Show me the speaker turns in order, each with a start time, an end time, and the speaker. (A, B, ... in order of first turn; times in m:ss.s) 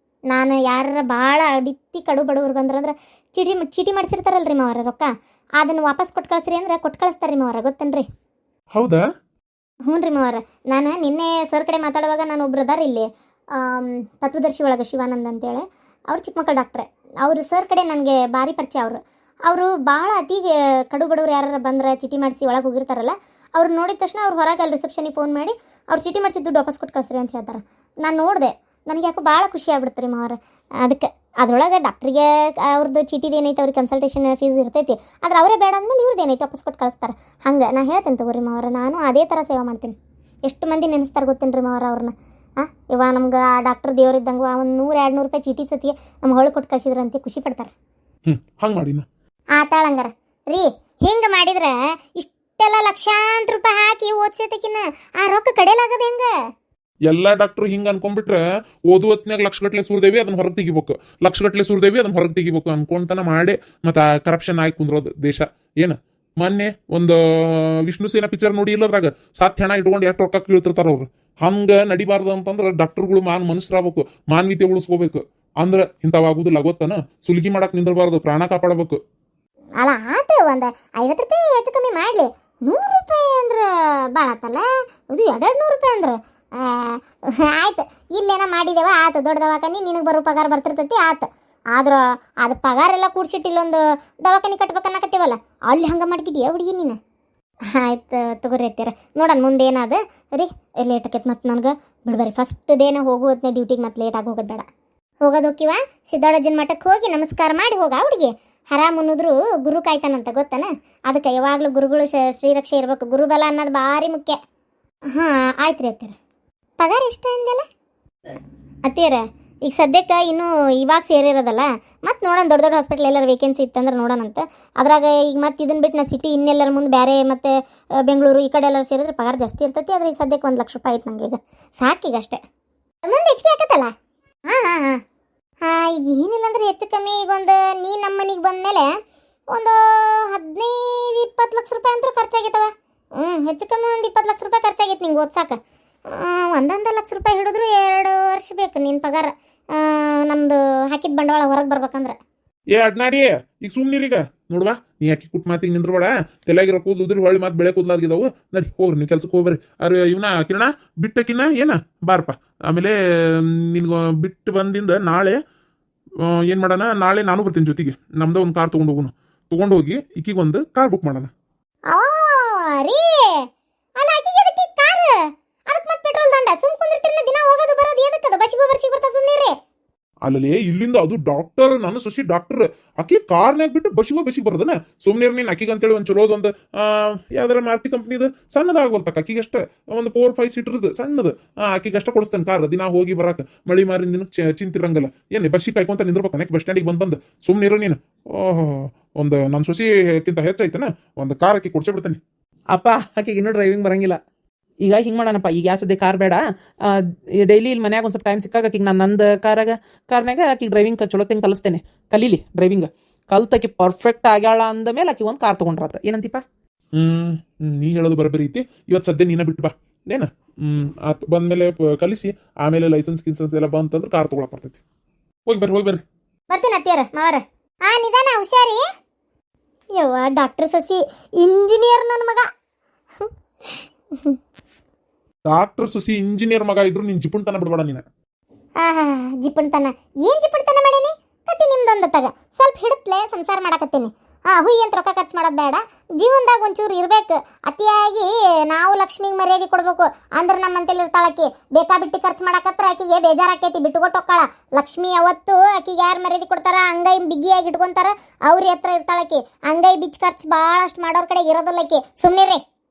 0:00.3-0:05.1 A
0:05.6-0:08.0 A
0:08.7-0:09.0 B
0:09.9-0:47.7 A
0:48.3-0:49.0 B
0:49.6-0:56.3 A
0:57.1-1:19.0 B
1:19.8-1:37.0 A
1:37.7-1:44.6 A
1:45.2-1:54.4 A
1:55.1-1:56.2 A
1:56.8-1:57.6 A
1:58.8-2:07.5 A
2:08.0-2:12.4 A
2:13.0-2:13.9 A
2:14.5-2:15.0 A
2:15.6-2:18.9 A
2:19.5-2:25.6 A
2:26.1-2:32.2 A
2:32.7-2:45.4 B
2:46.2-2:51.3 B
2:51.9-2:53.4 A
2:54.0-2:55.2 A
2:55.7-2:59.5 A
3:00.2-3:22.2 B
3:22.7-3:24.2 C
3:24.8-3:36.4 C
3:36.9-3:44.8 B
3:45.5-3:46.0 B
3:46.5-3:48.8 A
3:50.0-3:52.5 A
3:53.2-3:54.4 A
3:55.5-3:58.0 B
3:58.8-4:22.6 A